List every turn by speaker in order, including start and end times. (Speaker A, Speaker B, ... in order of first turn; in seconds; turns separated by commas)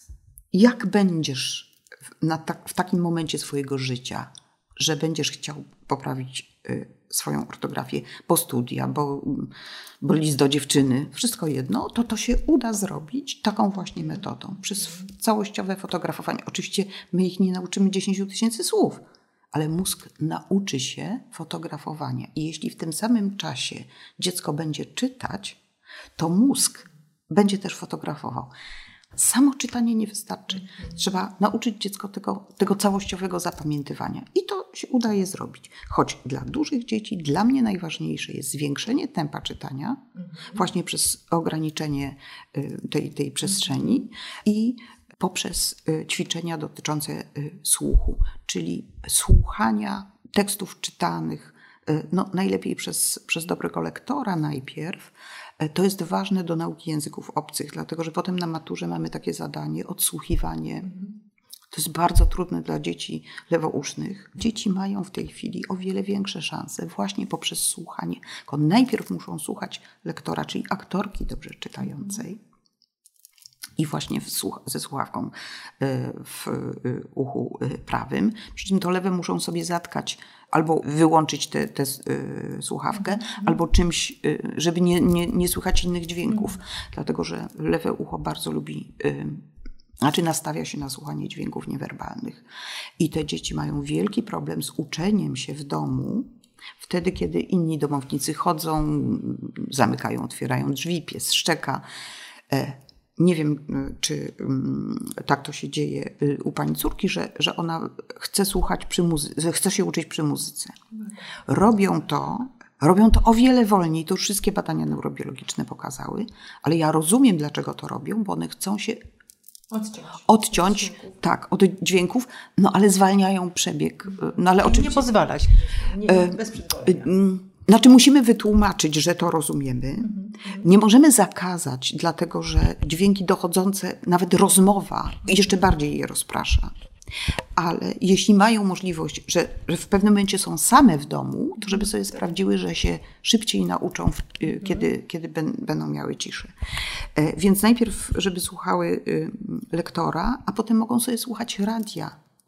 Speaker A: 0.5-19.0, Speaker A: 19.5-25.6, Speaker A: 26.2-28.5, Speaker A: 29.1-61.1, Speaker A: 61.7-72.4, Speaker A: 73.8-89.4, Speaker A: 90.0-92.5, Speaker A: 93.0-96.3, Speaker A: 96.8-101.8, Speaker A: 102.5-110.8, Speaker A: 111.5-119.0, Speaker B: 119.7-120.2, Speaker A: 120.2-125.2, Speaker B: 124.5-127.1, Speaker A: 126.0-136.7, Speaker B: 130.2-130.5, Speaker A: 137.6-146.5, Speaker A: 147.2-152.2